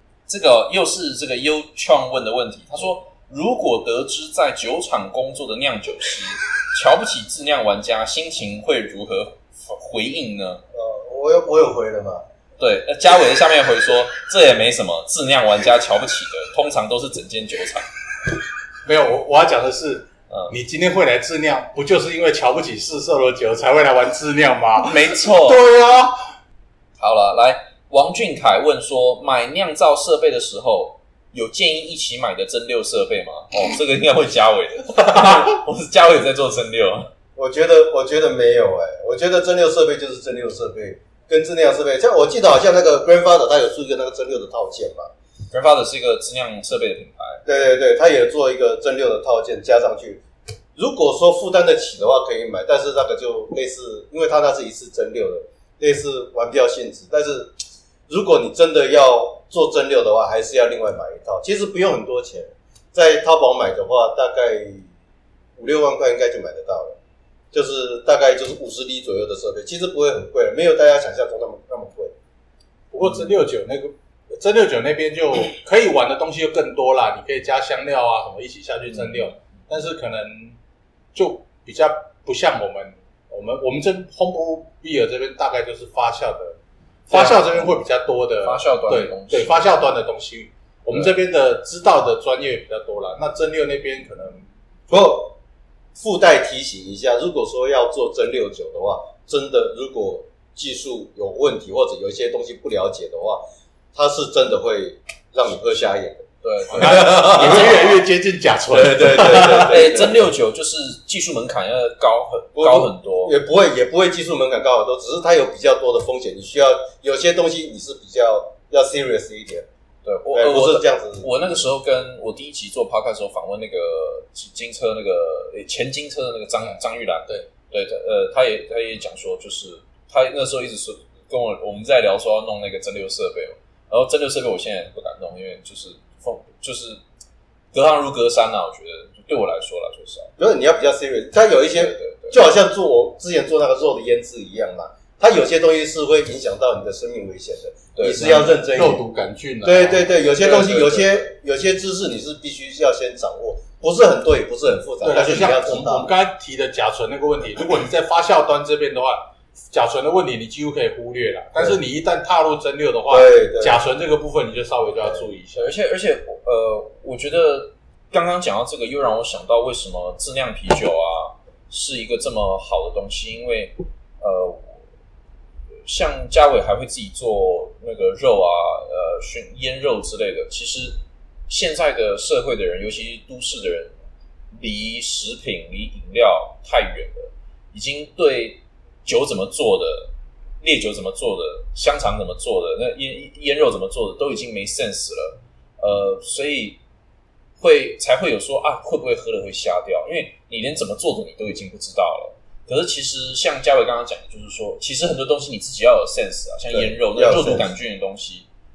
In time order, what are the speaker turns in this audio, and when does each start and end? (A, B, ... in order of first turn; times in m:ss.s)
0:00.3-0:10.6 A
0:10.7-0:12.2 B
0:12.6-0:17.9 A
0:18.8-0:26.2 C
0:20.3-0:20.5 A
0:24.8-0:25.6 A
0:27.0-0:37.1 A
0:37.4-0:45.1 B
0:45.5-0:47.4 A
0:47.4-0:50.2 B
0:50.8-0:57.6 B
0:58.1-1:04.9 B
1:05.6-1:07.0 B
1:07.5-1:12.1 B
1:12.9-1:20.6 C
1:21.1-1:26.6 C
1:27.1-1:34.4 C
1:27.1-1:27.7 A
1:28.4-1:29.6 A
1:34.9-1:35.4 B
1:35.9-1:43.4 B
1:43.9-1:47.9 B
1:46.4-1:47.8 A
1:46.7-1:49.9 C
1:48.7-1:50.3 B
1:49.1-1:53.3 A
1:52.6-1:59.6 B
2:00.0-2:17.0 A
2:00.3-2:01.3 B
2:17.7-2:20.3 A
2:20.4-2:29.0 B
2:21.7-2:22.4 A
2:28.0-2:28.3 A
2:28.1-2:31.1 C
2:29.6-2:36.1 B
2:35.0-2:45.7 C
2:43.1-2:43.8 B
2:45.6-2:54.8 A
2:55.8-3:03.9 A
3:04.5-3:10.1 A
3:10.6-3:16.8 A
3:17.6-3:28.5 A
3:26.7-3:27.7 B